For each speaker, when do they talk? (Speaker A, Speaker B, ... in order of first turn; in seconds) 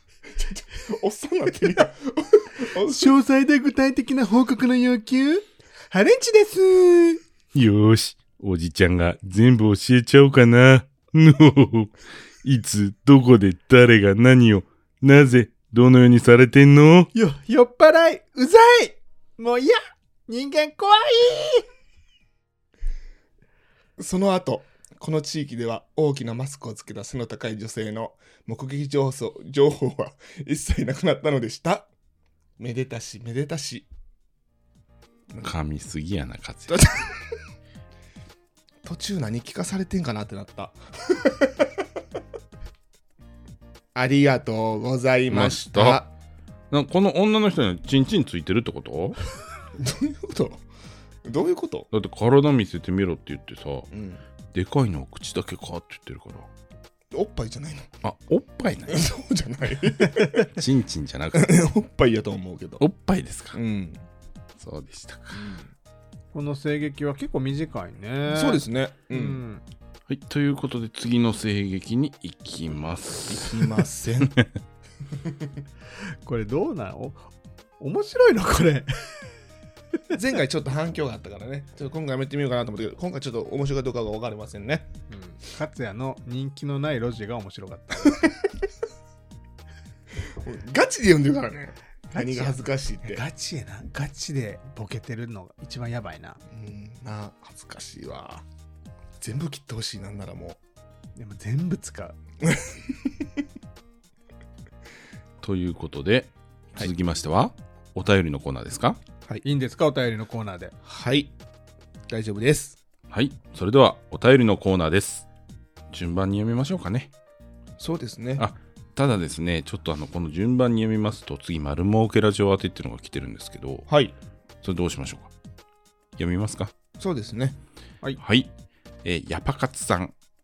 Speaker A: 0.3-3.1, 24.0-31.9, 32.6-33.9, 36.7-37.1, 38.8-41.8, 44.0-46.1, 49.8-50.6, 51.2-51.9, 53.9-54.2, 57.1-57.9, 58.9-60.5, 61.3-62.8, 63.5-64.0, 65.3-65.7, 68.3-69.4, 73.3-74.4, 75.2-75.5, 80.1-84.9, 90.3-93.2, 96.5-98.4, 99.2-100.6, 102.4-102.9, 110.8-111.3, 112.1-112.8, 117.8-118.5, 123.9-124.2, 127.0-127.6
Speaker B: 2.8-7.2, 17.1-21.6, 66.3-69.6, 76.2-77.3, 77.8-79.2, 85.1-88.3, 92.1-96.4, 101.2-102.2, 109.4-110.8
Speaker C: 7.5-17.1, 35.4-36.9, 45.3-46.0, 46.7-49.2, 51.9-53.9, 54.5-56.5, 58.0-59.0, 60.5-61.5, 62.8-63.6, 64.6-65.4, 70.1-74.5, 105.4-109.0, 113.1-115.2, 115.9-117.1, 118.4-123.9, 124.6-125.3, 126.2-126.7, 128.2-128.5, 129.0-130.1